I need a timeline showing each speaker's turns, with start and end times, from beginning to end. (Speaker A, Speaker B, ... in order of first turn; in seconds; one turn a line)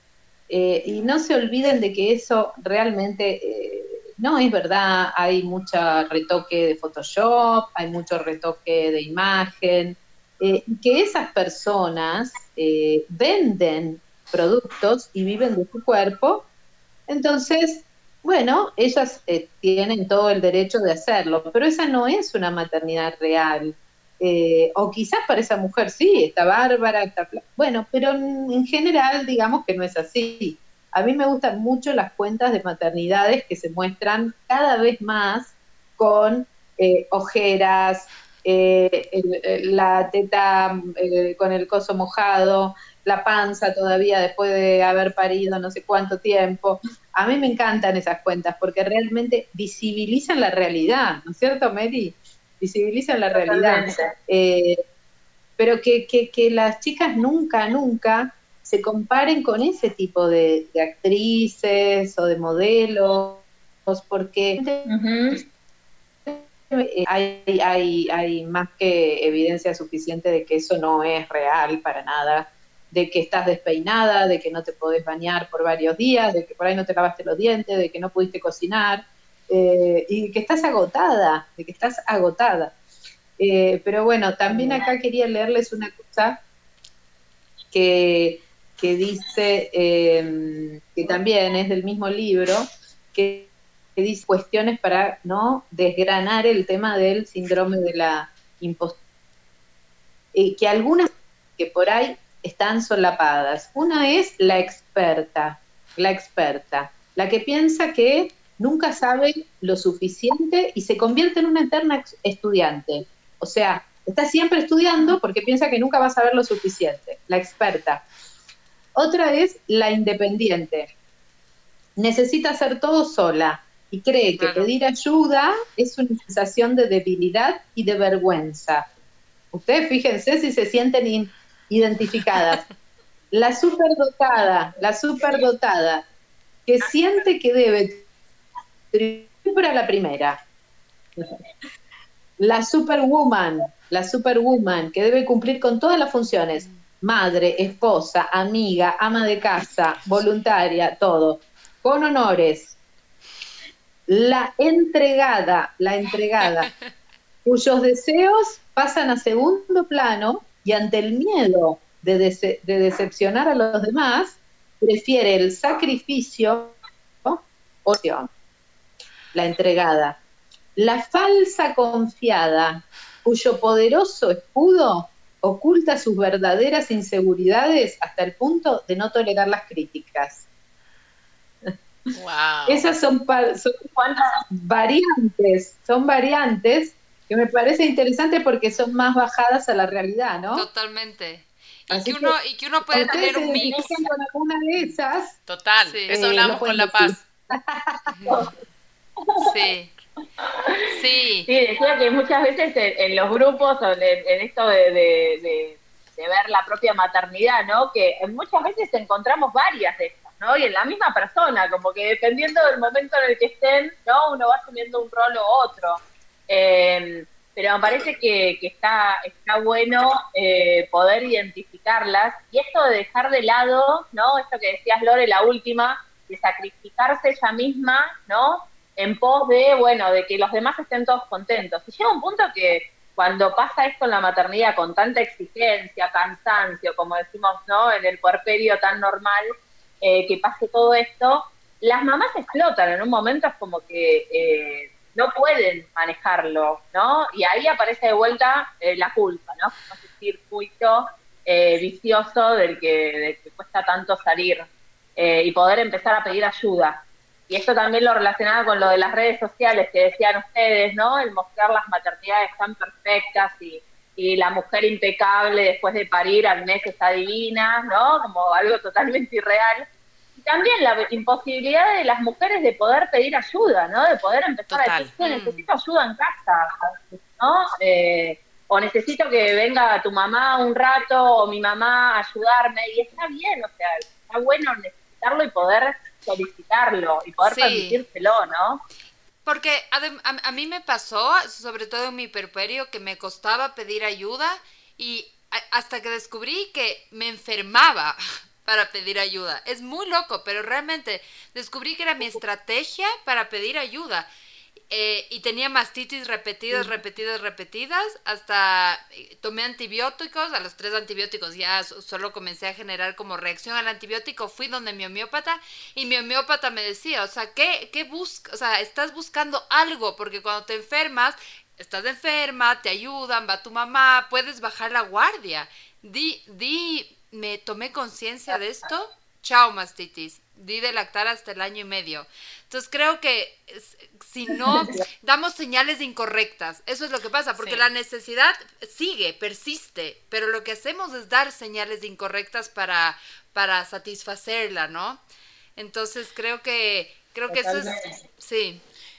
Speaker A: 0.5-16.5
Speaker A: 17.1-54.8
Speaker B: 53.3-54.1
Speaker A: 55.6-64.9
Speaker B: 64.9-65.4
Speaker A: 66.3-82.8
Speaker A: 83.4-86.4
Speaker A: 87.7-99.0
Speaker A: 100.3-118.0
Speaker A: 119.0-120.9
Speaker A: 122.0-128.9
Speaker C: 124.4-124.7
Speaker A: 129.5-132.6
Speaker A: 133.3-136.1
Speaker A: 136.7-138.1
Speaker A: 138.9-140.4
Speaker A: 141.2-141.4
Speaker A: 142.4-152.8
Speaker A: 154.1-156.7
Speaker A: 157.4-168.3
Speaker A: 169.3-170.2
Speaker A: 170.8-180.5
Speaker A: 181.7-182.1
Speaker C: 182.1-182.9
Speaker A: 182.7-183.8
Speaker B: 184.0-184.4
Speaker A: 184.5-190.7
Speaker D: 190.5-194.0
Speaker A: 191.9-192.4
Speaker A: 192.9-195.4
Speaker B: 192.9-194.1
Speaker C: 195.5-197.2
Speaker D: 195.9-196.2
Speaker A: 196.1-198.2
Speaker D: 198.1-198.5
Speaker D: 199.4-200.0
Speaker B: 200.4-200.9
Speaker D: 200.9-201.5
Speaker B: 201.5-239.5
Speaker B: 240.0-288.8
Speaker C: 274.7-275.1
Speaker D: 275.2-275.6
Speaker D: 287.4-288.0
Speaker D: 289.4-304.3
Speaker D: 304.9-345.2
Speaker C: 337.6-337.8
Speaker D: 345.8-348.8
Speaker B: 347.5-348.1